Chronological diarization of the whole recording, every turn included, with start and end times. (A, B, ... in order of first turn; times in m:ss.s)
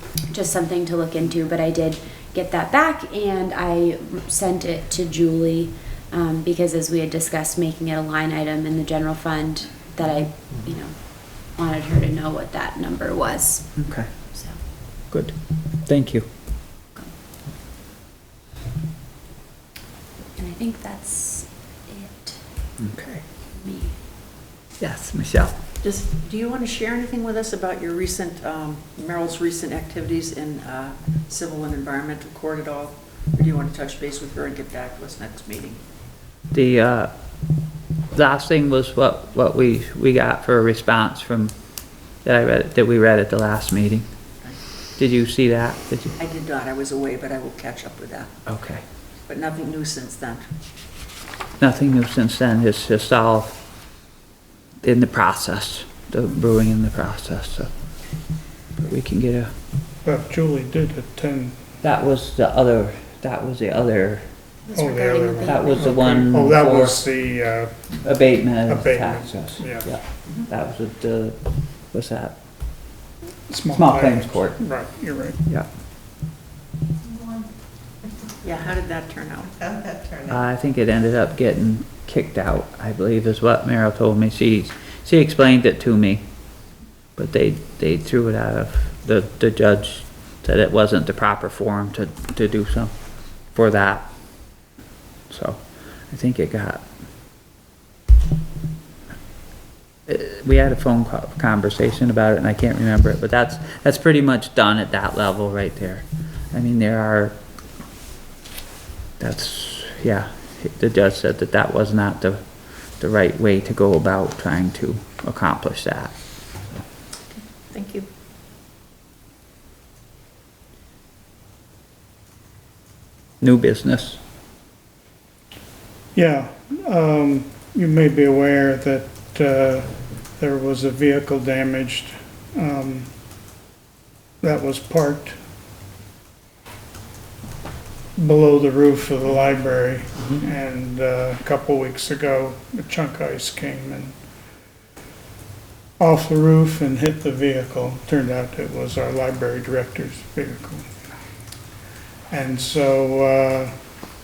0:00.3-0:14.6 A
0:13.8-0:14.1 B
0:15.1-0:15.3 B
0:15.8-0:16.3 B
0:20.4-0:22.4 A
0:22.8-0:23.2 B
0:23.5-0:24.0 A
0:24.8-0:25.6 B
0:25.8-0:35.8 C
0:36.5-0:37.1 B
0:38.1-0:41.5 B
0:42.2-0:44.1 B
0:45.0-0:46.2 B
0:46.2-0:48.4 C
0:48.5-0:48.8 B
0:49.3-0:50.4 C
0:51.6-0:53.6 B
0:54.8-0:57.7 B
0:58.8-0:59.5 B
1:00.0-1:01.6 D
1:01.8-1:04.3 B
1:04.7-1:05.9 A
1:04.7-1:07.9 D
1:05.4-1:07.0 B
1:08.0-1:12.4 B
1:08.7-1:10.0 D
1:13.5-1:15.4 D
1:13.7-1:14.7 B
1:18.4-1:20.1 C
1:20.2-1:26.2 B
1:27.2-1:32.9 B
1:33.5-1:34.1 B
1:35.3-1:36.8 B
1:40.1-1:47.4 B
1:49.2-1:56.8 B
1:57.4-1:58.1 C
2:03.4-2:04.2 B
2:06.2-2:13.1 D
2:14.4-2:15.4 D
2:18.2-2:24.2 D
2:26.0-2:30.9 D
2:32.3-2:33.7 D